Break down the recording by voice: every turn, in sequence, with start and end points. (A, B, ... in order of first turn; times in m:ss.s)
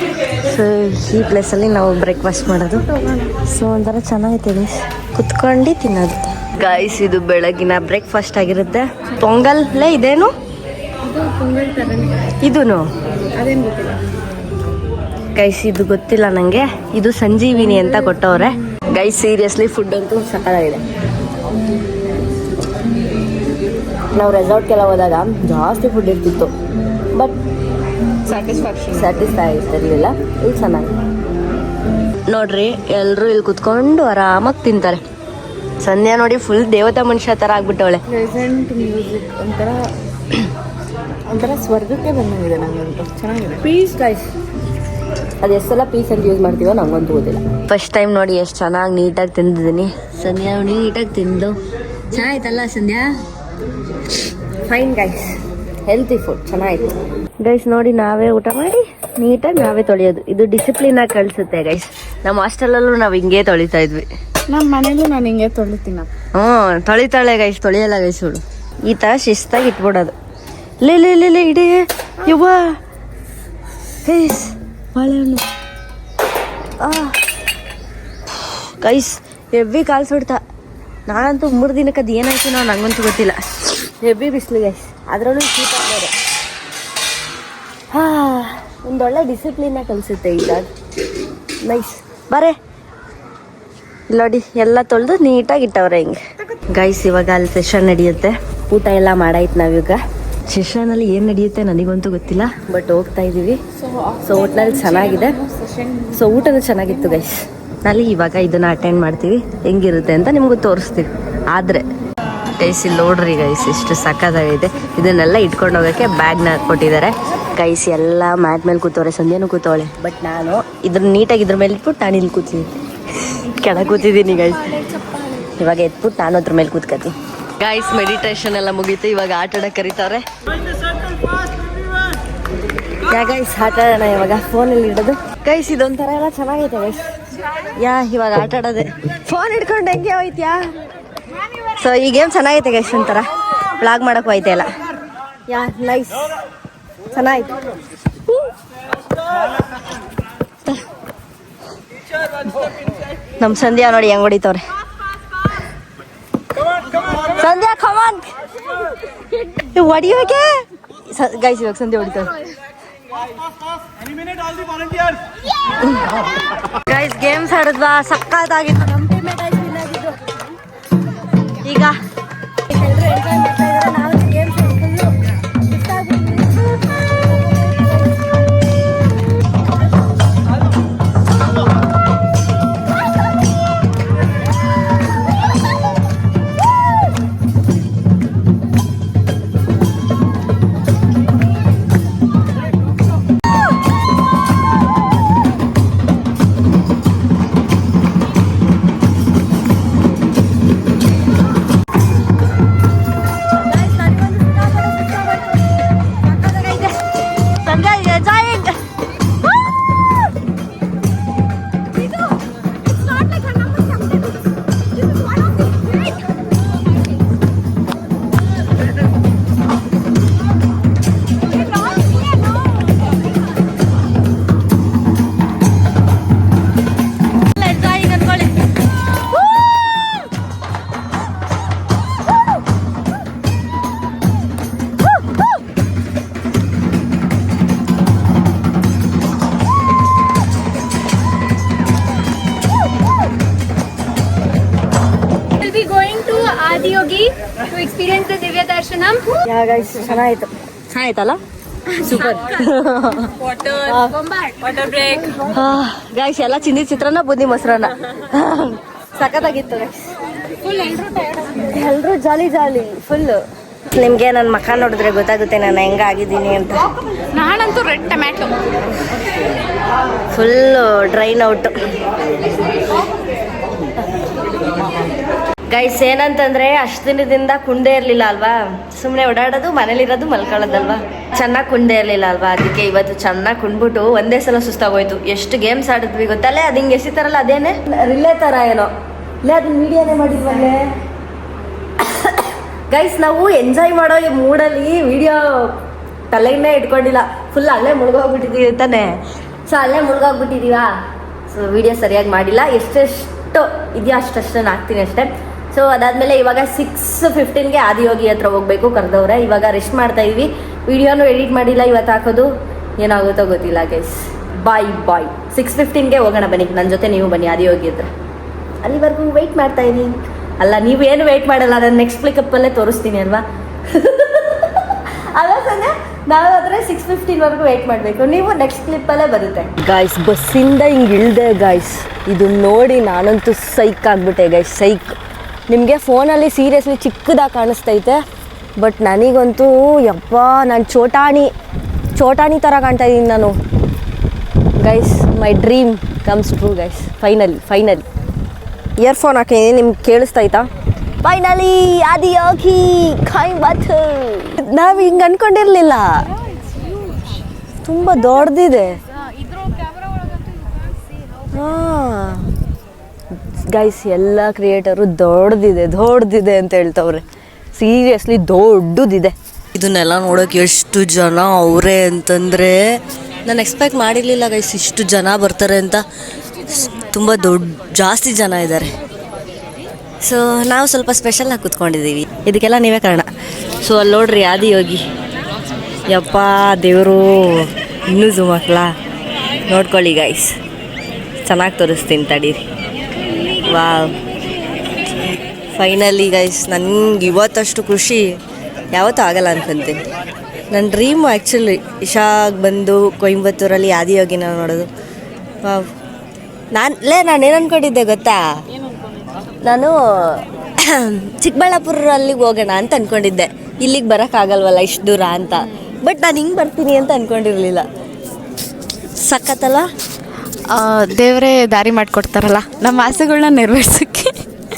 0:00.3-0:02.9 A
0:02.9-0:03.4 B
0:03.4-0:10.3 A
0:11.0-0:12.3 B
0:12.4-0:12.8 A
0:13.3-0:14.0 B
0:15.4-0:20.8 A
0:17.8-0:18.3 B
0:24.1-0:26.5 A
0:28.2-0:29.2 B
0:28.9-0:30.9 A
0:32.3-0:35.0 A
0:35.8-0:38.0 A
0:38.1-0:40.4 B
0:41.3-0:43.6 B
0:43.6-0:44.3 A
0:45.4-0:51.6 A
0:52.1-0:53.1 A
0:54.7-0:55.4 A
0:55.9-1:04.1 A
1:04.5-1:06.1 B
1:06.3-1:10.2 A
1:10.8-1:12.8 A
1:14.0-1:15.4 A
1:16.8-1:17.2 A
1:18.8-1:20.4 A
1:21.1-1:26.1 A
1:27.9-1:30.7 A
1:31.6-1:32.6 A
1:34.1-1:43.6 A
1:43.8-1:46.3 B
1:44.3-1:45.4 A
1:46.1-1:51.9 A
1:52.5-2:02.7 A
2:03.2-2:04.8 A
2:05.3-2:10.2 A
2:13.1-2:17.0 A
2:17.8-2:20.6 A
2:21.8-2:24.7 A
2:25.5-2:26.2 A
2:27.1-2:27.6 A
2:33.4-2:34.6 A
2:37.3-2:38.3 A
2:39.5-2:40.5 A
2:41.1-2:42.3 A
2:46.8-2:50.2 A
2:51.6-2:52.0 A
2:52.7-2:58.1 A
3:23.7-3:27.0 A
3:27.6-3:28.8 A
3:47.6-3:48.5 A
4:05.6-4:09.2 B
4:09.4-4:11.4 A
4:12.0-4:12.6 B
4:12.0-4:14.2 A
4:13.4-4:15.5 B
4:15.4-4:20.1 A
4:20.6-4:21.7 B
4:21.7-4:26.9 A
4:27.3-4:28.7 B
4:30.3-4:31.7 A
4:35.7-4:48.9 A
4:49.4-4:50.8 A
4:52.0-4:55.7 A
4:56.3-4:59.2 A
4:59.7-5:00.9 A
5:01.5-5:18.1 A
5:18.8-5:35.2 A
5:35.7-5:38.2 A
5:38.8-5:41.5 A
5:42.2-5:43.6 A
5:44.8-5:48.0 A
5:49.0-5:50.7 A
5:51.2-5:56.3 A
5:57.8-5:59.0 A
6:01.5-6:02.5 A
6:03.6-6:16.0 A
6:16.7-6:18.9 A
6:20.2-6:23.3 A
6:23.8-6:25.0 A
6:26.1-6:28.9 A
6:29.7-6:30.6 A
6:31.4-6:32.6 A
6:33.6-6:34.2 A
6:35.7-6:38.4 A
6:38.9-6:40.0 A
6:40.7-6:44.9 A
6:45.6-6:45.9 A
6:46.7-6:48.6 A
6:49.6-6:57.9 A
6:59.2-6:59.9 A
7:00.7-7:04.4 B